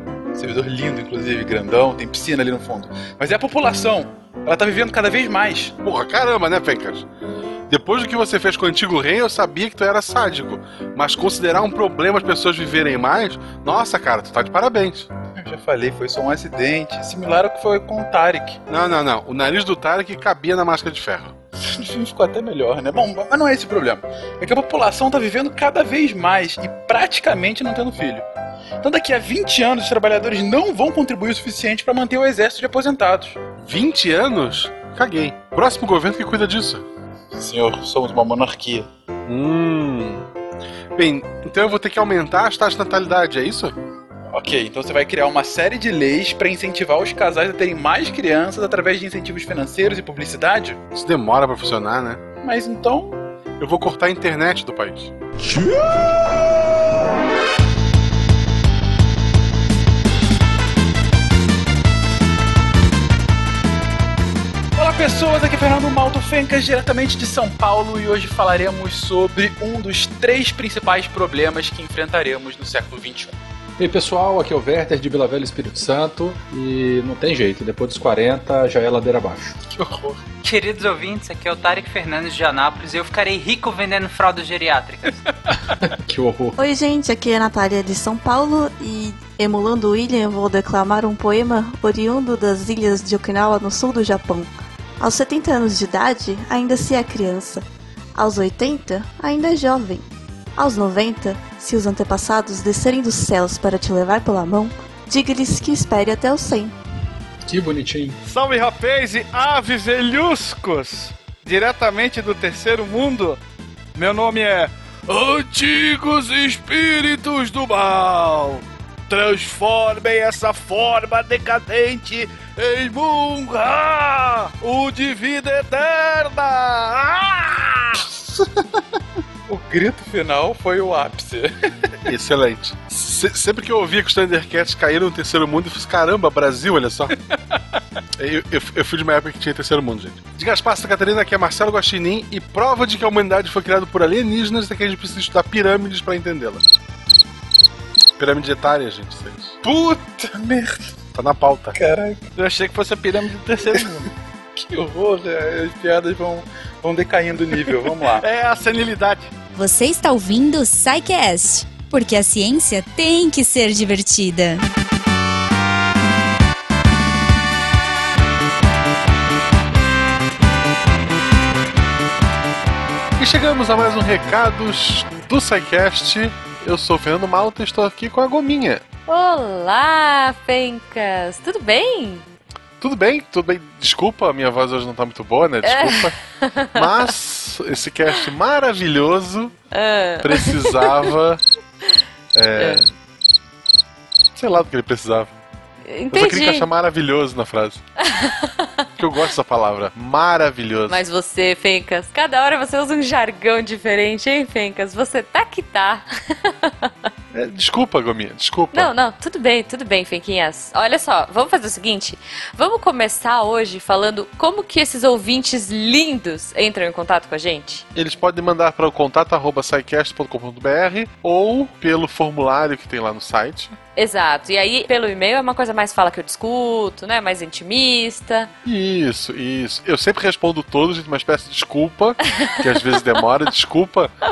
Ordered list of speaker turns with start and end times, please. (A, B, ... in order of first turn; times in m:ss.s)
0:00.3-0:05.8 A
0:05.8-0:07.1 B
0:07.7-0:15.1 B
0:15.4-0:18.6 A
0:18.7-0:21.3 B
0:21.6-0:28.3 A
0:28.8-0:33.4 A
0:33.6-0:36.8 B
0:37.3-0:38.9 A
0:39.3-0:40.3 B
0:41.0-0:43.8 B
0:44.3-0:50.8 A
0:50.9-0:52.2 B
0:52.4-0:53.2 A
0:53.6-0:55.1 B
1:04.8-1:13.4 A
1:13.8-1:19.7 C
1:19.7-1:20.2 A
1:20.4-1:25.2 D
1:25.7-1:26.6 C
1:26.6-1:46.8 E
1:47.5-1:48.2 C
1:48.2-1:53.4 F
1:54.0-2:08.5 F
2:09.5-2:12.1 A
2:12.1-2:17.2 B
2:18.2-2:26.6 B
2:28.2-2:29.6 B
2:29.6-2:30.9 A
2:31.2-2:31.8 B
2:31.8-2:32.3 A
2:32.4-2:34.1 F
2:34.6-2:38.2 A
2:38.2-2:39.3 F
2:39.6-2:44.6 G
2:53.2-2:58.8 B
2:59.1-3:02.3 H
3:02.8-3:06.2 B
3:05.6-3:07.1 H
3:06.8-3:09.5 B
3:09.7-3:11.1 H
3:10.2-3:11.4 B
3:12.3-3:12.9 B
3:12.6-3:12.9 H
3:14.3-3:15.3 B
3:15.9-3:16.7 H
3:16.1-3:17.8 B
3:18.0-3:19.2 H
3:19.0-3:21.0 B
3:20.9-3:26.9 H
3:27.3-3:28.9 B
3:28.7-3:37.8 H
3:38.0-3:43.7 B
3:44.0-3:48.5 H
3:48.6-3:54.1 B
3:52.2-3:53.3 H